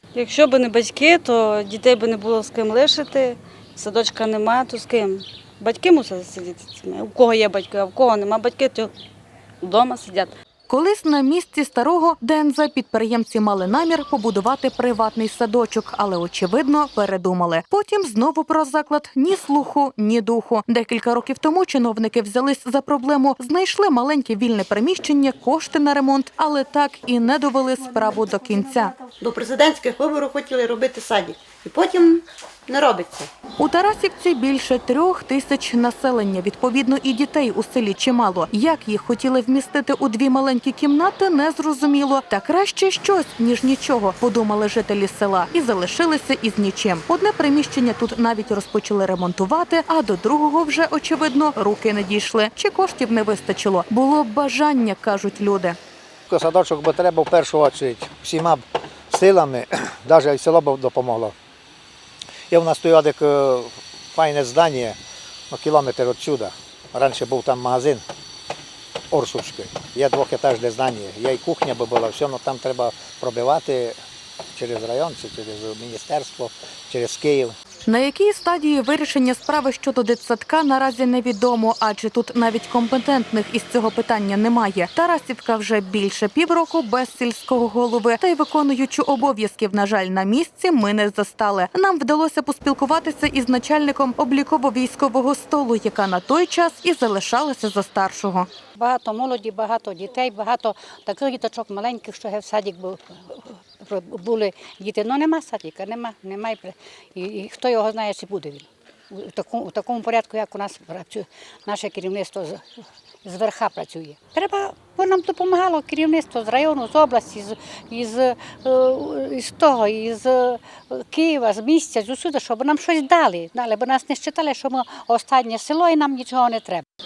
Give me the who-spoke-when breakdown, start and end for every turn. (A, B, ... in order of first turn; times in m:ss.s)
0:00.2-0:08.9 A
0:09.6-0:10.3 A
0:10.7-0:28.9 B
0:29.2-0:33.3 C
0:33.6-0:55.8 B
0:56.3-1:01.3 D
1:02.5-1:05.0 D
1:05.5-1:08.0 D
1:09.1-1:14.0 D
1:14.6-1:17.6 D
1:17.9-1:38.5 B
1:38.8-1:52.6 E
1:53.2-2:06.8 E